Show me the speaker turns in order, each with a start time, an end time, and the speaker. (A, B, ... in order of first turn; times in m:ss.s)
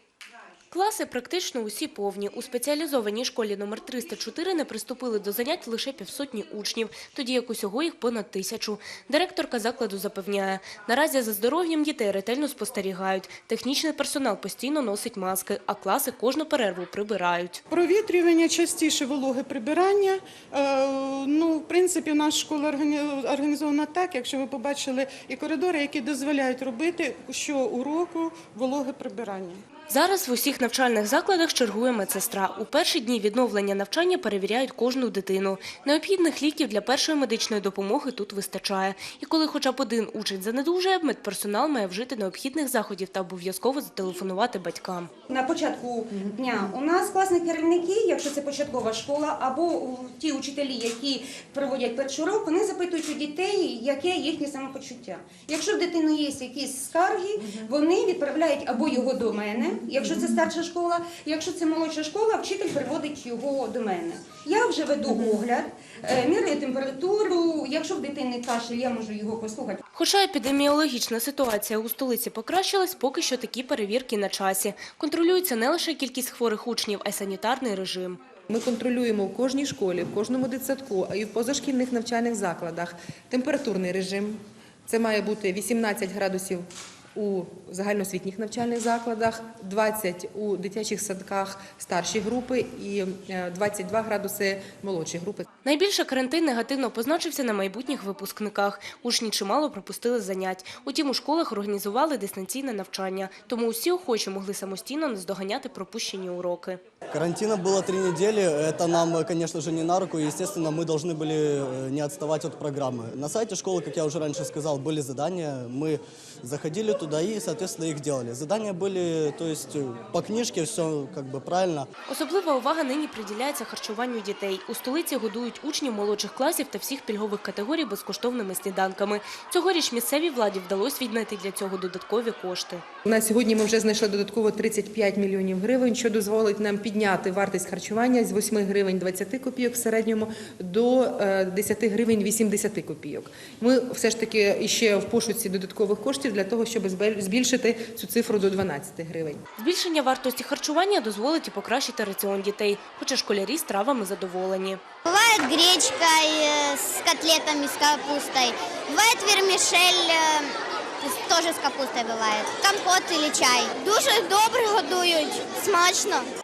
0:00.7-0:17.6 A
0:17.7-0:29.6 B
0:29.9-0:45.1 A
0:45.3-1:09.8 C
1:09.9-1:18.2 A
1:18.5-1:35.4 D
1:35.6-1:46.8 A
1:47.1-2:01.9 E
2:02.0-2:12.8 A
2:13.0-2:29.4 D
2:29.6-2:34.8 A
2:35.0-2:46.3 F